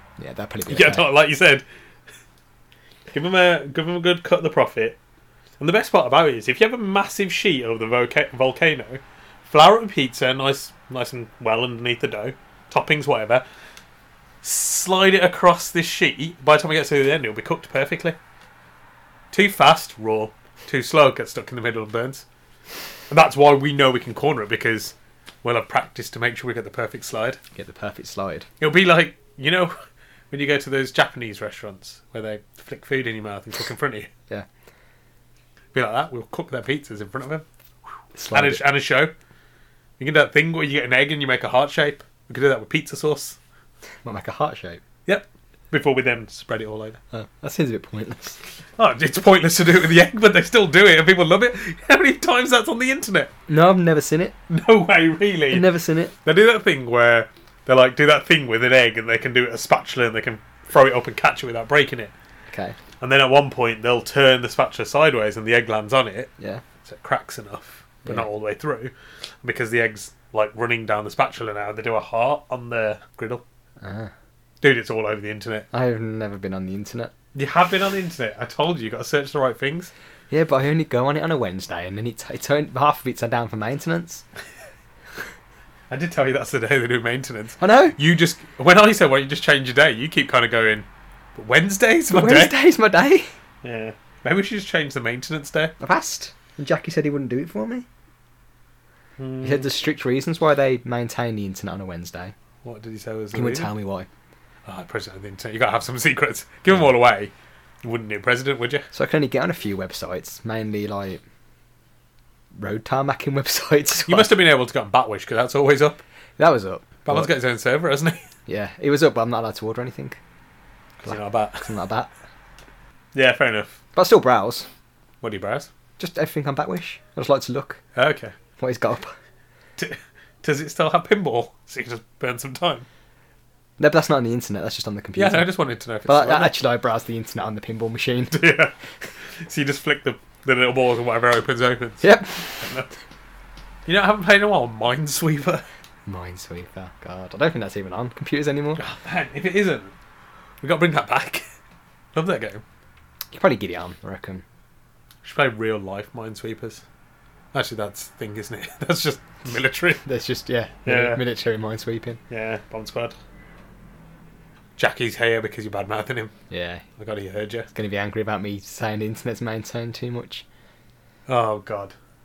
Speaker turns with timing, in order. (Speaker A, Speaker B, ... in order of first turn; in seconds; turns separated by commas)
Speaker A: 0.2-1.1, Speaker B: 0.7-1.6, Speaker B: 3.1-5.0, Speaker B: 5.6-13.4, Speaker B: 14.4-18.2, Speaker B: 19.3-22.2, Speaker B: 23.1-27.4, Speaker A: 27.5-28.5, Speaker B: 28.6-29.7, Speaker B: 30.3-34.1, Speaker B: 35.7-37.4, Speaker A: 38.1-38.6, Speaker B: 38.3-39.1, Speaker B: 40.0-43.4, Speaker A: 44.0-44.8, Speaker B: 45.0-47.0, Speaker A: 47.1-48.4, Speaker B: 48.8-53.3, Speaker A: 53.5-54.3, Speaker B: 54.5-55.7, Speaker A: 55.5-56.1, Speaker B: 56.2-62.1, Speaker A: 62.5-62.8, Speaker B: 63.0-66.3, Speaker B: 66.8-73.4, Speaker A: 73.8-74.1, Speaker B: 74.6-75.7, Speaker A: 75.7-77.1, Speaker B: 77.3-79.9, Speaker A: 80.3-84.2, Speaker B: 85.9-92.5, Speaker A: 87.6-88.0, Speaker A: 92.1-93.3, Speaker B: 93.6-95.7, Speaker A: 95.8-97.8, Speaker B: 99.2-99.7, Speaker A: 99.4-102.3, Speaker B: 102.6-103.7, Speaker A: 103.3-104.1, Speaker B: 104.7-107.3, Speaker B: 107.8-108.9, Speaker A: 108.9-111.2, Speaker A: 112.5-114.3, Speaker B: 114.0-116.0, Speaker A: 116.4-117.3, Speaker B: 117.0-118.2, Speaker A: 118.5-120.2, Speaker B: 121.0-121.7, Speaker A: 121.0-122.1, Speaker B: 123.1-123.8, Speaker A: 123.9-124.7, Speaker B: 125.2-125.7, Speaker A: 126.0-127.8, Speaker B: 127.9-128.3, Speaker A: 128.6-129.1, Speaker B: 129.8-132.8, Speaker A: 133.8-135.5, Speaker B: 135.1-136.5, Speaker A: 136.0-138.4, Speaker B: 138.3-142.9, Speaker A: 142.0-142.6, Speaker B: 143.8-145.6, Speaker A: 146.1-148.8, Speaker B: 148.8-149.9, Speaker B: 150.6-151.4, Speaker B: 152.1-152.6, Speaker A: 153.3-154.4, Speaker B: 155.2-156.8, Speaker B: 157.5-160.0, Speaker A: 160.0-162.2, Speaker B: 160.8-161.2, Speaker B: 162.3-163.1, Speaker B: 164.8-166.3, Speaker A: 166.5-166.8, Speaker B: 167.0-167.7, Speaker A: 167.7-170.4, Speaker B: 171.3-171.9